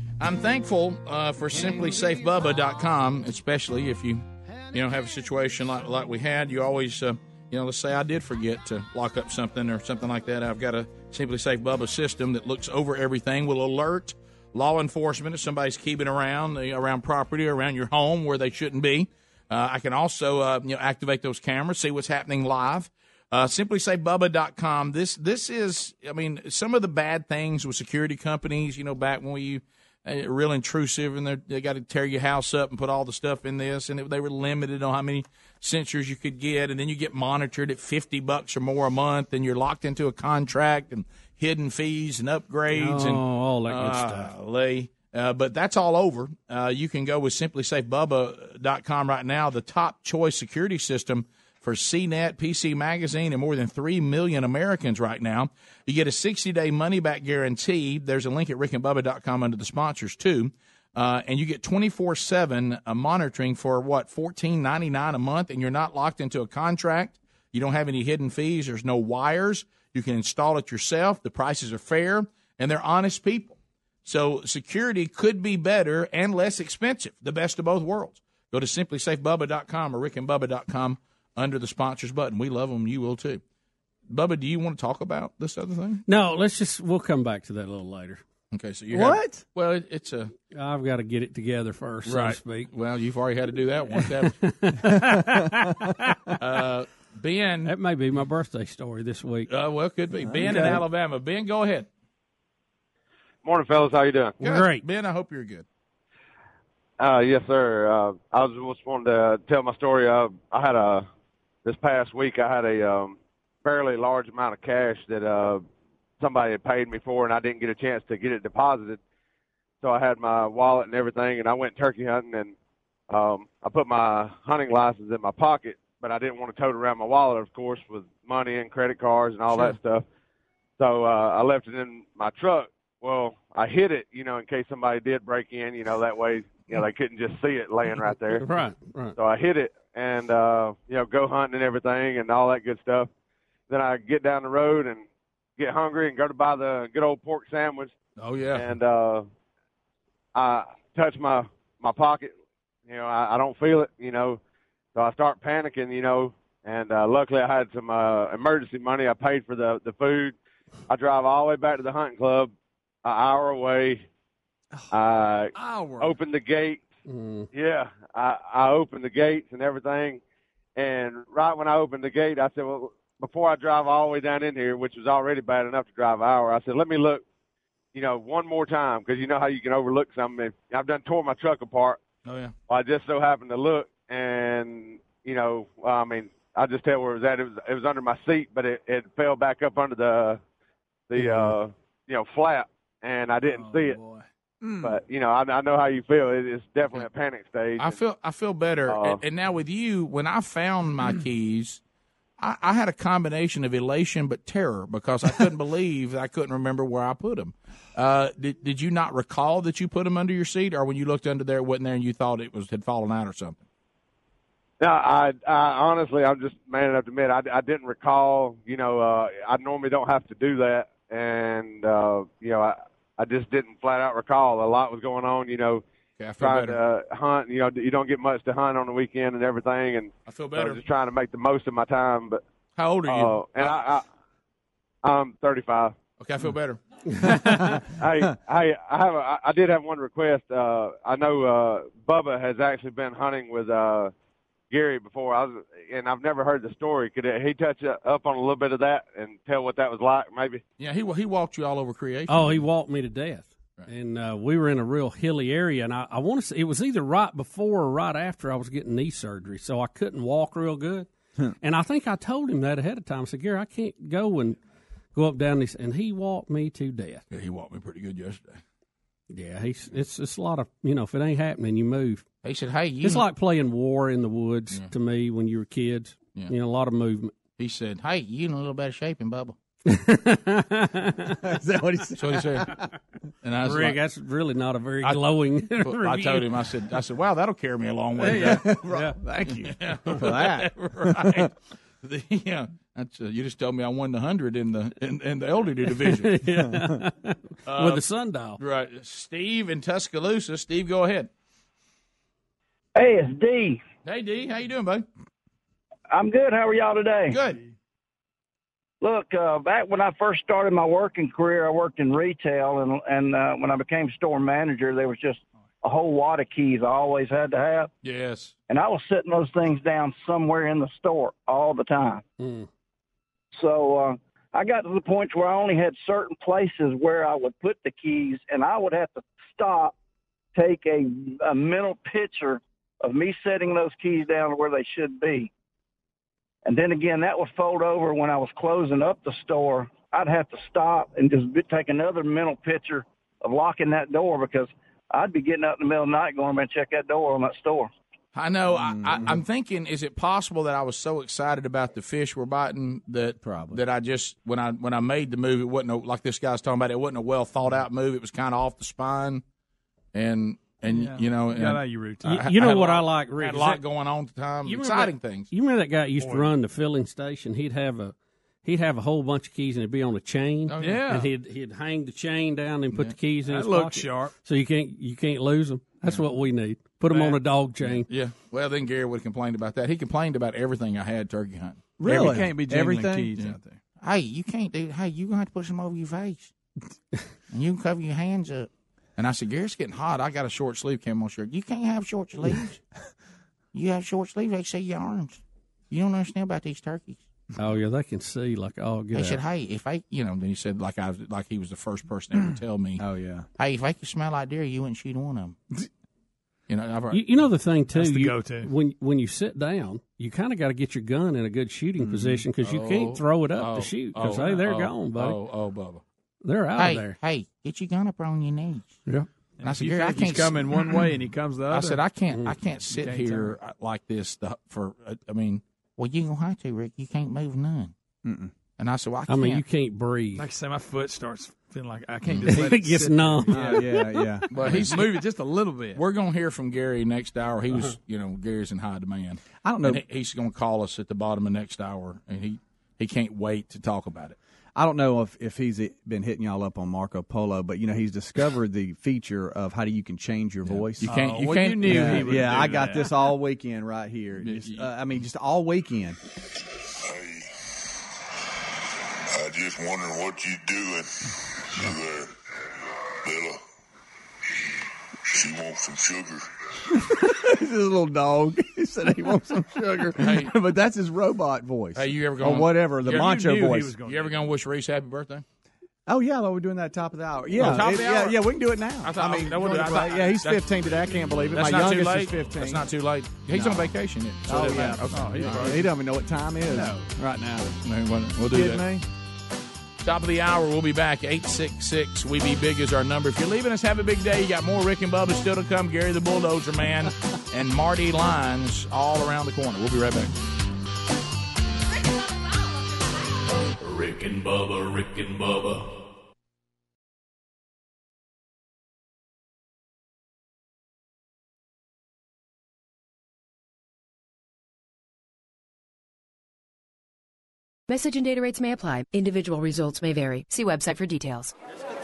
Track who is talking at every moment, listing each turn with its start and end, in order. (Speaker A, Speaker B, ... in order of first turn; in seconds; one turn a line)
Speaker A: 0.2-83.4
Speaker B: 42.7-44.3
Speaker A: 84.1-86.0
Speaker B: 86.1-88.2
Speaker A: 88.5-90.3
Speaker C: 88.9-89.4
Speaker B: 90.5-92.7
Speaker A: 92.1-94.4
Speaker B: 94.2-96.3
Speaker A: 96.4-97.7
Speaker B: 97.7-99.5
Speaker A: 99.5-101.9
Speaker C: 100.4-100.8
Speaker B: 100.5-100.8
Speaker D: 103.4-104.4
Speaker A: 104.4-105.7
Speaker B: 104.4-104.8
Speaker D: 107.0-111.1
Speaker D: 111.7-115.6
Speaker D: 116.2-119.0
Speaker D: 119.8-122.5
Speaker D: 123.1-130.1
Speaker A: 129.5-129.8
Speaker D: 130.8-138.4
Speaker B: 138.3-139.2
Speaker D: 139.2-143.1
Speaker D: 143.7-145.1
Speaker D: 145.6-147.9
Speaker A: 148.2-148.7
Speaker D: 148.6-149.3
Speaker D: 150.3-152.3
Speaker D: 152.9-154.4
Speaker D: 154.9-160.4
Speaker D: 160.9-162.5
Speaker D: 163.0-164.0
Speaker D: 164.9-166.8
Speaker E: 165.6-166.1
Speaker B: 167.1-167.5
Speaker D: 167.5-170.2
Speaker D: 170.8-177.2
Speaker D: 177.9-182.0
Speaker A: 182.3-182.5
Speaker D: 182.7-190.4
Speaker D: 191.1-194.0
Speaker B: 191.2-191.5
Speaker E: 193.5-194.2
Speaker D: 194.8-198.0
Speaker A: 197.8-201.8
Speaker D: 198.9-199.2
Speaker A: 202.4-213.6
Speaker D: 214.8-225.8
Speaker A: 226.2-226.8
Speaker D: 226.4-232.4
Speaker A: 230.3-230.8
Speaker A: 232.8-233.8
Speaker D: 233.1-234.0
Speaker D: 235.0-235.9
Speaker A: 236.2-236.8
Speaker C: 237.2-238.3
Speaker D: 238.0-244.1
Speaker D: 244.7-250.6
Speaker A: 250.8-252.6
Speaker B: 252.3-261.1
Speaker B: 261.6-264.6
Speaker B: 265.1-267.2
Speaker A: 267.3-268.6
Speaker B: 269.3-272.2
Speaker A: 272.4-273.3
Speaker B: 273.0-277.4
Speaker A: 277.6-279.6
Speaker B: 279.9-281.6
Speaker C: 281.4-282.9
Speaker A: 282.2-282.8
Speaker A: 283.4-284.0
Speaker B: 283.6-286.5
Speaker A: 285.0-288.8
Speaker C: 288.2-291.5
Speaker B: 288.2-289.2
Speaker A: 289.5-291.5
Speaker A: 292.0-296.4
Speaker B: 296.1-298.6
Speaker A: 297.7-298.0
Speaker A: 298.6-301.3
Speaker F: 303.0-303.8
Speaker A: 304.1-305.1
Speaker F: 306.1-307.4
Speaker A: 307.3-307.6
Speaker F: 309.0-317.9
Speaker A: 318.0-318.5
Speaker F: 318.7-322.2
Speaker B: 322.4-322.7
Speaker F: 323.5-329.9
Speaker F: 330.6-335.5
Speaker F: 336.6-347.9
Speaker A: 348.3-359.4
Speaker C: 348.7-349.4
Speaker C: 353.4-353.8
Speaker A: 360.1-365.5
Speaker E: 360.8-362.4
Speaker B: 362.2-363.8
Speaker B: 364.6-378.1
Speaker E: 366.2-366.5
Speaker A: 370.7-371.1
Speaker E: 370.8-371.3
Speaker E: 373.4-374.4
Speaker E: 377.1-377.4
Speaker A: 377.8-382.6
Speaker C: 382.0-383.4
Speaker E: 382.3-383.8
Speaker A: 383.3-386.5
Speaker A: 387.5-392.8
Speaker A: 393.7-397.2
Speaker B: 397.6-399.4
Speaker A: 399.1-403.0
Speaker C: 403.0-403.5
Speaker A: 403.6-405.6
Speaker A: 406.7-407.5
Speaker B: 407.1-415.4
Speaker E: 407.9-408.7
Speaker C: 412.0-412.4
Speaker A: 412.6-416.0
Speaker B: 416.4-417.2
Speaker A: 416.8-419.0
Speaker E: 419.6-422.0
Speaker A: 419.6-421.1
Speaker A: 421.7-427.9
Speaker E: 422.9-423.6
Speaker C: 428.2-428.5
Speaker A: 428.8-429.6
Speaker B: 429.3-430.4
Speaker E: 430.4-436.0
Speaker A: 432.3-432.6
Speaker B: 432.4-434.1
Speaker C: 433.5-434.9
Speaker A: 434.5-435.3
Speaker A: 436.0-444.4
Speaker C: 439.6-440.0
Speaker C: 444.8-456.2
Speaker A: 450.7-452.6
Speaker E: 451.0-453.2
Speaker A: 454.4-454.9
Speaker G: 459.6-461.0
Speaker G: 465.4-466.3
Speaker C: 466.9-474.0
Speaker A: 470.2-470.5
Speaker A: 471.9-475.4
Speaker E: 473.7-474.5
Speaker C: 476.1-482.9
Speaker A: 477.5-478.4
Speaker A: 479.0-480.7
Speaker A: 481.5-485.8
Speaker C: 483.5-487.8
Speaker E: 485.1-485.9
Speaker A: 487.9-488.8
Speaker C: 488.4-489.0
Speaker A: 490.0-500.4
Speaker H: 503.8-506.0
Speaker I: 517.9-521.5